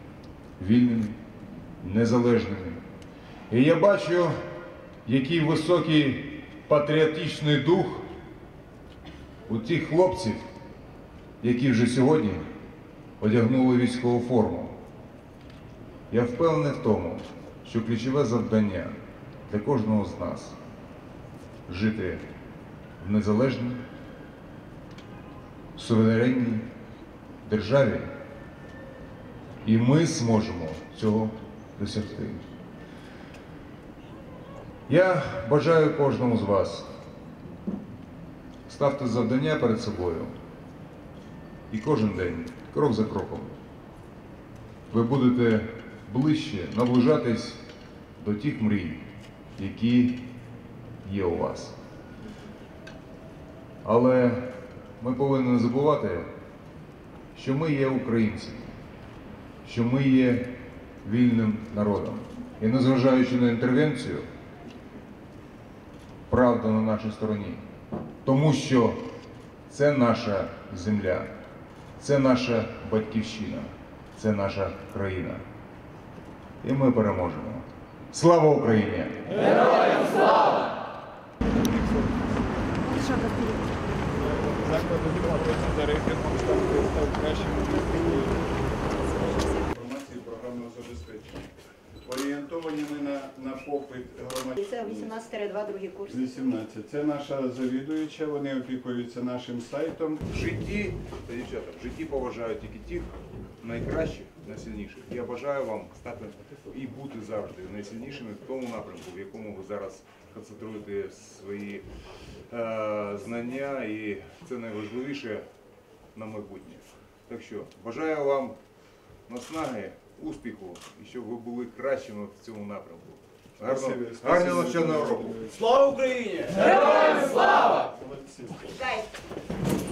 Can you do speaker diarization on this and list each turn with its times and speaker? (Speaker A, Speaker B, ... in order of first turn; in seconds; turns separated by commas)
Speaker A: 0.6-1.2, Speaker A: 1.8-2.8, Speaker A: 3.5-4.3, Speaker A: 5.0-8.1, Speaker A: 9.5-10.4, Speaker A: 11.4-12.4, Speaker A: 13.2-14.7, Speaker A: 16.1-19.0, Speaker A: 19.5-20.6, Speaker A: 21.7-22.2, Speaker A: 23.0-23.8, Speaker A: 25.8-26.6, Speaker A: 27.4-28.1, Speaker A: 29.6-32.4, Speaker A: 34.9-36.9, Speaker A: 38.7-40.3, Speaker A: 41.7-43.5, Speaker A: 44.9-47.6, Speaker A: 48.2-49.0, Speaker A: 49.6-50.3, Speaker A: 51.0-51.8, Speaker A: 53.8-56.3, Speaker A: 57.3-58.7, Speaker A: 59.6-64.2, Speaker A: 66.3-67.6, Speaker A: 68.2-69.0, Speaker A: 69.7-71.3, Speaker A: 72.0-75.4, Speaker A: 76.6-80.0, Speaker B: 83.0-83.5, Speaker C: 84.4-88.4, Speaker C: 89.4-91.5, Speaker C: 92.0-94.9, Speaker B: 94.6-96.2, Speaker C: 96.1-100.2, Speaker A: 100.3-111.9, Speaker A: 112.5-115.4, Speaker A: 116.1-118.6, Speaker A: 119.3-125.4, Speaker C: 123.7-128.8, Speaker B: 128.8-129.0